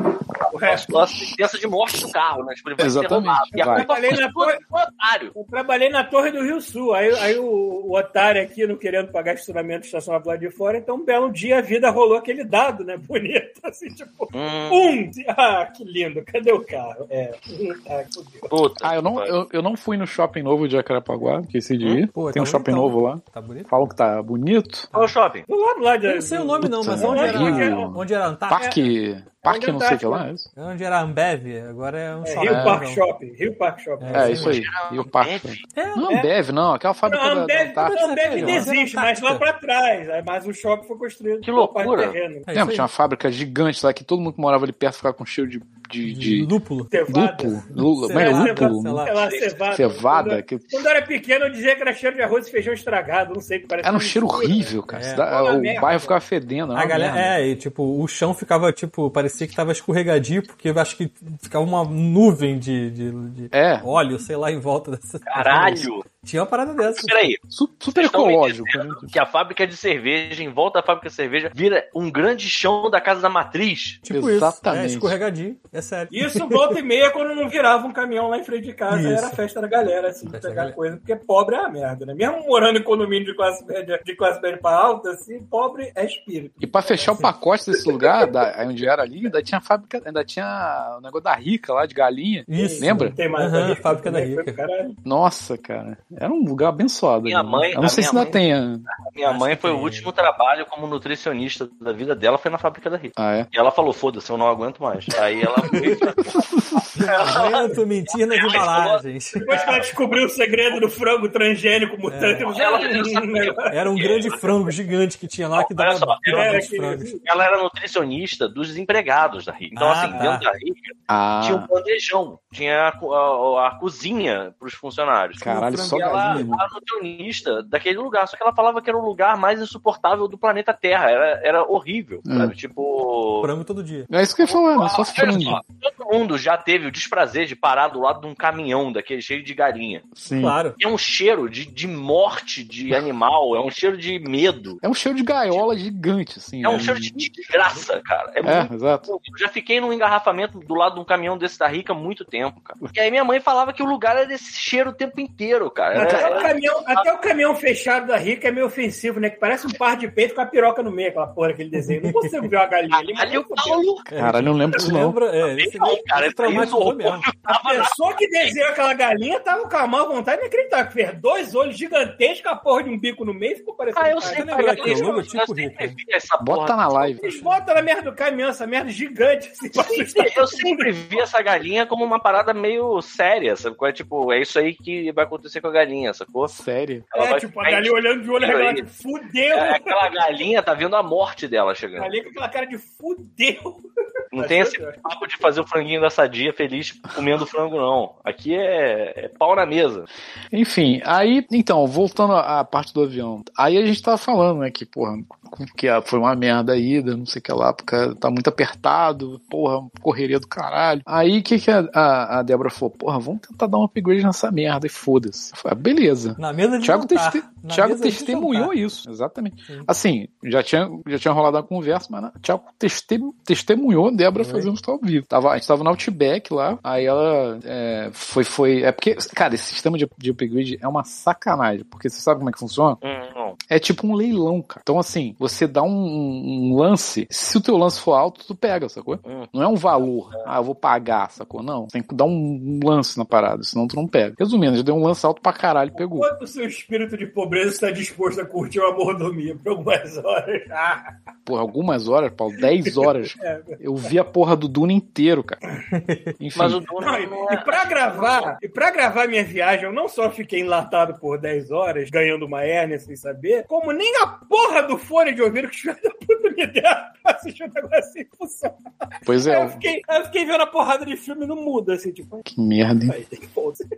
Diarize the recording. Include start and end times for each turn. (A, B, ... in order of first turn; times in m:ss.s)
0:00.5-0:05.4 A
0:00.5-0:00.9 B
0:02.8-0:04.2 C
0:03.6-0:04.6 B
0:05.4-0:18.5 B
0:14.3-0:15.0 A
0:18.5-0:19.3 A
0:18.8-0:24.9 C
0:21.8-0:22.0 A
0:22.1-0:23.7 D
0:24.9-0:25.5 A
0:25.5-0:27.9 B
0:26.1-0:28.8 D
0:26.6-0:30.5 C
0:29.4-0:30.2 B
0:30.6-0:33.0 D
0:32.2-0:34.5 B
0:32.4-0:32.8 C
0:34.0-0:34.6 D
0:34.1-0:38.7 C
0:34.4-0:35.6 A
0:35.8-0:36.1 D
0:37.1-0:42.5 B
0:37.8-0:39.4 D
0:41.4-0:42.2 A
0:42.5-0:42.9 D
0:42.5-0:46.5 C
0:46.0-0:46.9 D
0:46.9-0:54.7 B
0:47.1-0:49.0 C
0:47.8-0:49.1 D
0:49.2-0:49.5 A
0:49.7-0:50.8 C
0:53.8-0:57.4 C
0:54.9-0:55.2 D
0:55.2-0:56.1 B
0:56.7-1:07.2 D
1:03.5-1:03.9 C
1:05.3-1:06.0 A
1:06.8-1:07.4 A
1:07.5-1:09.1 C
1:08.0-1:14.0 A
1:14.0-1:16.8 D
1:14.1-1:15.2 C
1:16.1-1:28.3 B
1:18.9-1:19.4 D
1:20.3-1:20.8 D
1:26.6-1:33.2 C
1:32.5-1:34.6 D
1:32.6-1:35.0 B
1:35.0-1:38.9 C
1:37.3-1:38.4 A
1:39.0-1:49.9 A
1:39.3-1:40.1 D
1:43.2-1:43.5 C
1:45.7-1:46.1 D
1:45.8-1:47.0 C
1:46.9-1:49.5 D
1:49.4-1:53.8 B
1:52.1-1:52.5 D
1:52.5-1:54.6 A
1:53.7-1:57.2 D
1:55.6-1:56.7 A
1:56.3-1:57.2 B
1:57.2-2:13.5 A
1:59.8-2:00.4 D
2:01.1-2:01.7 C
2:05.4-2:06.6 C
2:05.4-2:06.5 D
2:12.3-2:12.5 C
2:13.4-2:14.1 D
2:14.1-2:15.6 C
2:14.4-2:20.1 A
2:20.2-2:20.6 C
2:20.3-2:20.8 D
2:20.8-2:24.8 A
2:24.8-2:27.1 C
2:26.6-2:37.1 A
2:26.7-2:27.8 B
2:28.4-2:29.1 C
2:36.0-2:43.8 B
2:36.0-2:36.4 C
2:41.8-2:42.3 D
2:42.9-2:44.1 A
2:44.1-2:47.3 D
2:44.1-2:45.2 C
2:45.4-2:48.5 A
2:47.4-2:55.3 B
2:54.0-2:57.2 A
2:54.2-2:56.0 D
2:56.4-2:57.2 C
2:57.2-3:01.2 B
2:57.2-2:57.8 D
2:59.8-3:06.5 A
3:06.5-3:07.1 C
3:07.1-3:08.8 A
3:07.2-3:10.0 B
3:09.5-3:12.1 A
3:12.0-3:13.8 B
3:14.3-3:20.1 A
3:14.4-3:15.0 B
3:20.5-3:53.0 C
3:36.4-3:38.7 D
3:44.4-3:44.7 D
3:53.0-3:53.6 A
3:53.7-4:06.3 C
3:59.2-3:59.5 A
4:06.0-4:11.1 B
4:11.5-4:15.6 C
4:13.3-4:13.8 B
4:15.9-4:16.3 D
4:16.4-4:16.8 C
4:16.6-4:18.4 A
4:17.0-4:32.5 B
4:29.3-4:29.8 C
4:32.5-4:33.2 C
4:33.1-4:33.8 B